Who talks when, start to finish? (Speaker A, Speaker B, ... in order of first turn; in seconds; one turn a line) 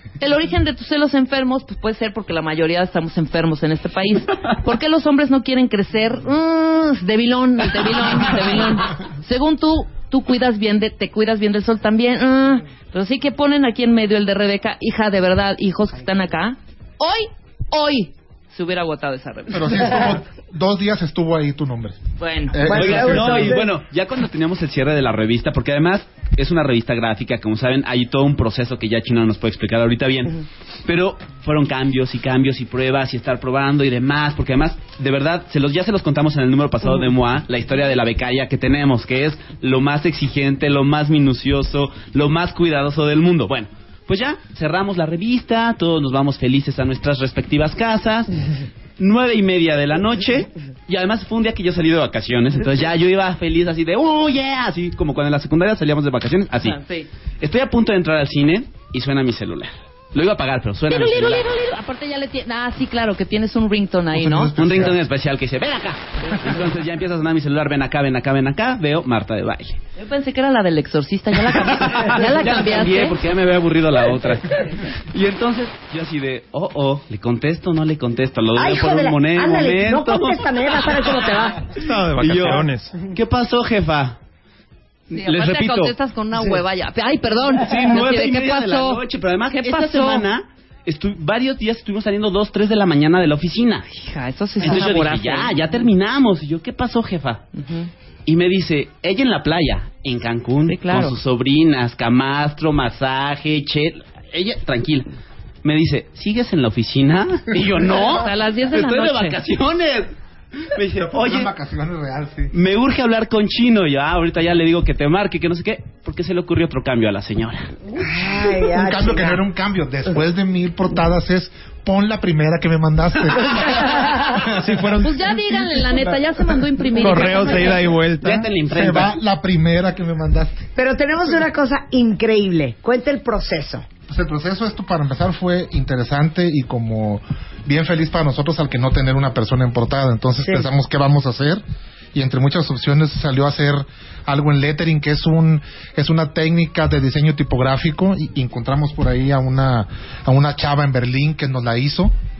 Speaker A: 0.2-20.1
Speaker B: 19.5-22.0
Speaker A: 22.2-23.6
Speaker B: 22.5-23.5
Speaker C: 22.7-23.6
Speaker D: 22.7-48.3
Speaker D: 49.0-56.8
Speaker A: 56.6-57.1
Speaker D: 57.4-61.5
Speaker A: 60.9-64.5
Speaker B: 64.1-65.0
Speaker D: 64.6-69.8
Speaker A: 70.0-73.1
Speaker D: 71.5-81.3
Speaker C: 78.5-81.7
Speaker E: 81.7-83.1
Speaker D: 82.2-84.2
Speaker A: 85.1-90.2
Speaker D: 85.2-85.9
Speaker D: 87.6-93.9
Speaker A: 93.9-95.5
Speaker D: 94.6-97.4
Speaker A: 97.6-97.9
Speaker D: 98.2-105.1
Speaker A: 100.7-101.2
Speaker D: 105.6-111.5
Speaker A: 108.1-109.3
Speaker B: 111.0-112.5
Speaker D: 112.5-117.7
Speaker C: 117.9-119.4
Speaker B: 118.4-124.8
Speaker E: 124.4-125.4
Speaker A: 125.0-127.8
Speaker B: 125.9-126.2
Speaker E: 126.9-128.5
Speaker D: 128.2-129.1
Speaker B: 128.7-130.7
Speaker C: 130.8-133.9
Speaker B: 134.1-141.6
Speaker B: 142.1-152.1